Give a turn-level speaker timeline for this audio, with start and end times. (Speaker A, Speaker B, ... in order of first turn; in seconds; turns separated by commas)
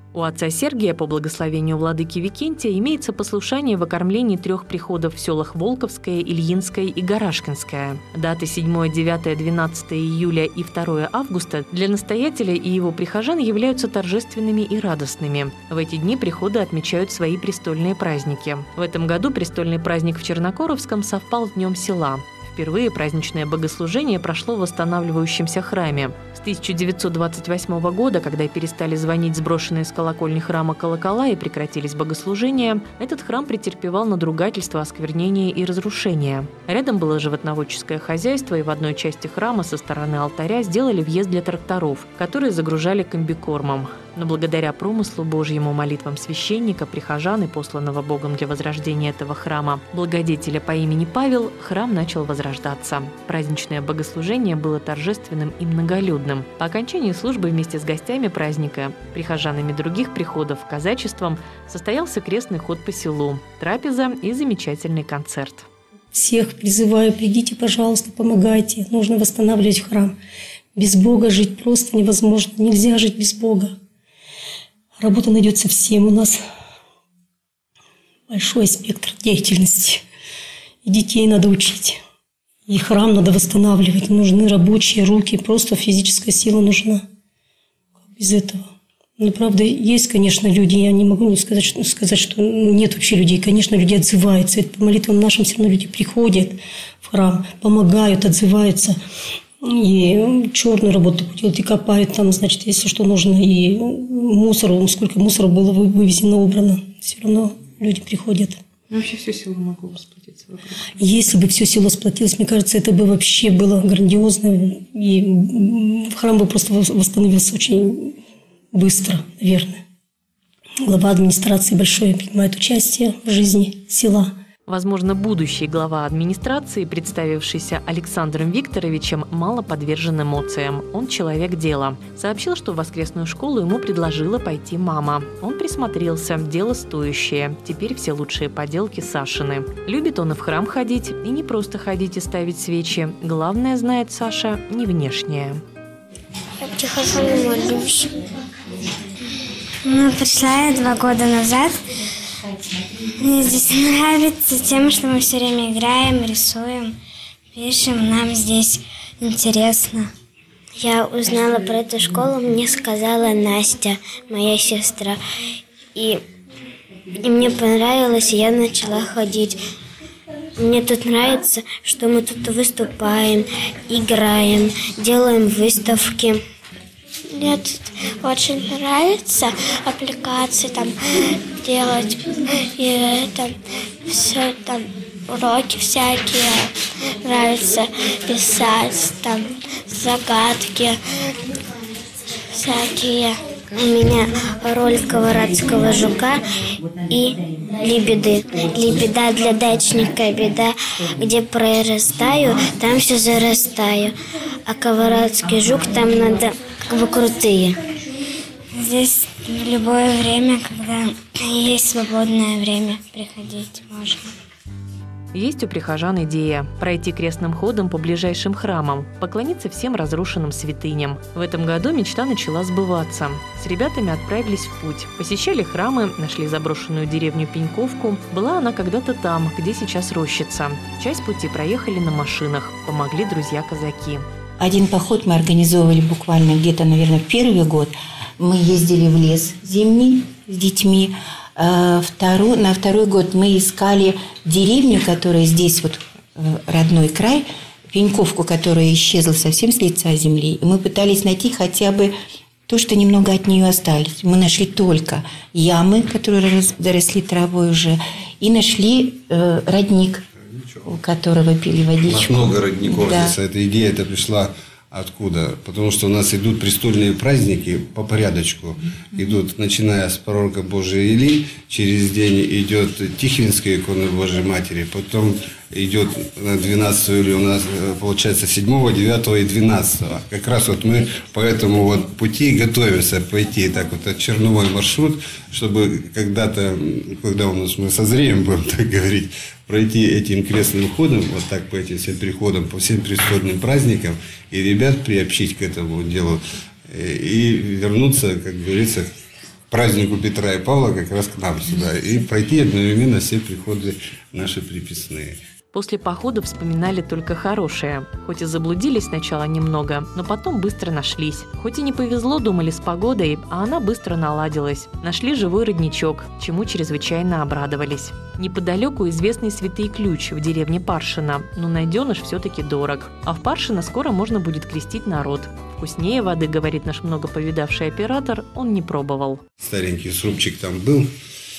Speaker A: 0.1-65.7, Speaker B: 66.1-70.2, Speaker B: 70.8-73.8, Speaker B: 75.0-76.4, Speaker B: 78.3-80.0, Speaker B: 80.8-82.0, Speaker B: 82.7-87.0, Speaker B: 88.1-99.0, Speaker B: 99.6-108.6, Speaker C: 108.9-110.9, Speaker B: 111.0-118.2, Speaker B: 118.7-119.8, Speaker B: 120.8-124.3, Speaker A: 124.7-145.6, Speaker D: 146.6-148.2, Speaker D: 149.8-151.8, Speaker D: 153.2-157.0, Speaker D: 157.5-160.1, Speaker D: 160.8-165.2, Speaker D: 165.9-166.2, Speaker D: 167.2-169.6, Speaker D: 170.6-176.4, Speaker D: 177.3-191.0, Speaker D: 192.5-196.4, Speaker D: 197.1-204.2, Speaker D: 204.7-207.9, Speaker D: 208.7-214.3, Speaker A: 215.3-234.3, Speaker E: 234.6-252.1, Speaker E: 252.7-260.2, Speaker F: 260.5-260.8, Speaker E: 260.8-263.4, Speaker F: 262.1-299.1, Speaker F: 299.7-305.4, Speaker A: 305.7-329.4, Speaker F: 329.6-331.1